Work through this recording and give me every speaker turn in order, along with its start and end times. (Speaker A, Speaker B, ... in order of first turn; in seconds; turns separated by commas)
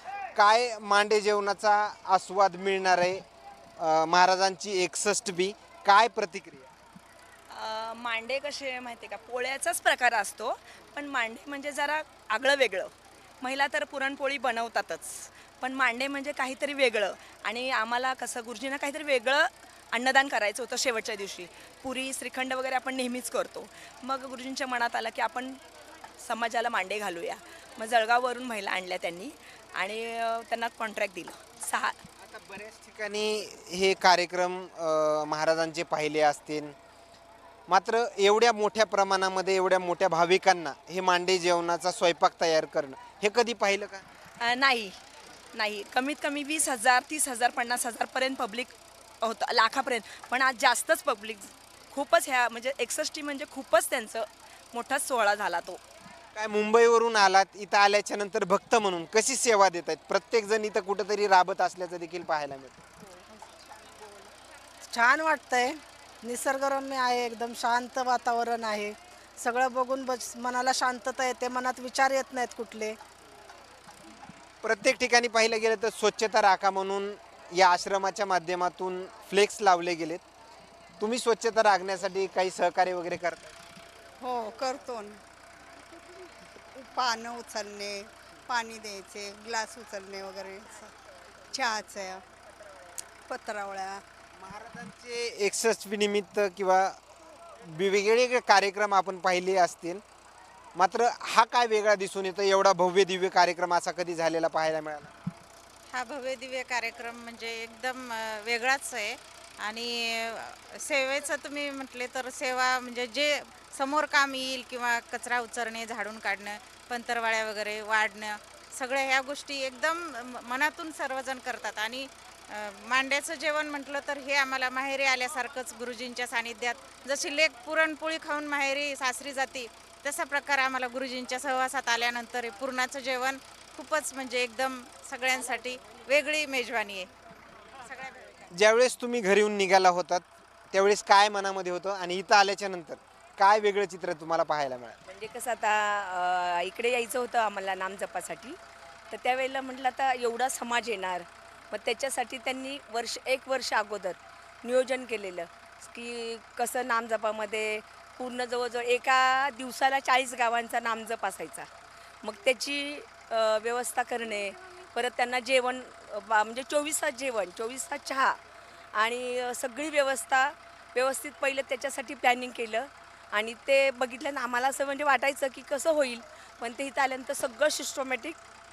Speaker A: 0.3-3.2, Speaker A: 3.8-6.7, Speaker B: 7.5-25.6, Speaker B: 26.2-31.9, Speaker A: 32.2-36.7, Speaker A: 37.7-44.0, Speaker B: 44.4-45.0, Speaker B: 45.5-55.8, Speaker A: 56.3-62.8, Speaker C: 63.0-64.3, Speaker D: 64.9-73.0, Speaker A: 74.6-80.2, Speaker A: 81.0-83.5, Speaker C: 84.2-85.2, Speaker C: 86.7-90.9, Speaker C: 91.5-92.2, Speaker C: 93.3-94.0, Speaker A: 94.4-97.0, Speaker A: 97.6-100.0, Speaker A: 100.8-105.1, Speaker E: 105.9-137.1, Speaker E: 137.8-138.4, Speaker A: 138.5-145.0, Speaker B: 145.1-148.6, Speaker B: 149.1-161.7, Speaker B: 162.2-168.4, Speaker B: 169.0-178.4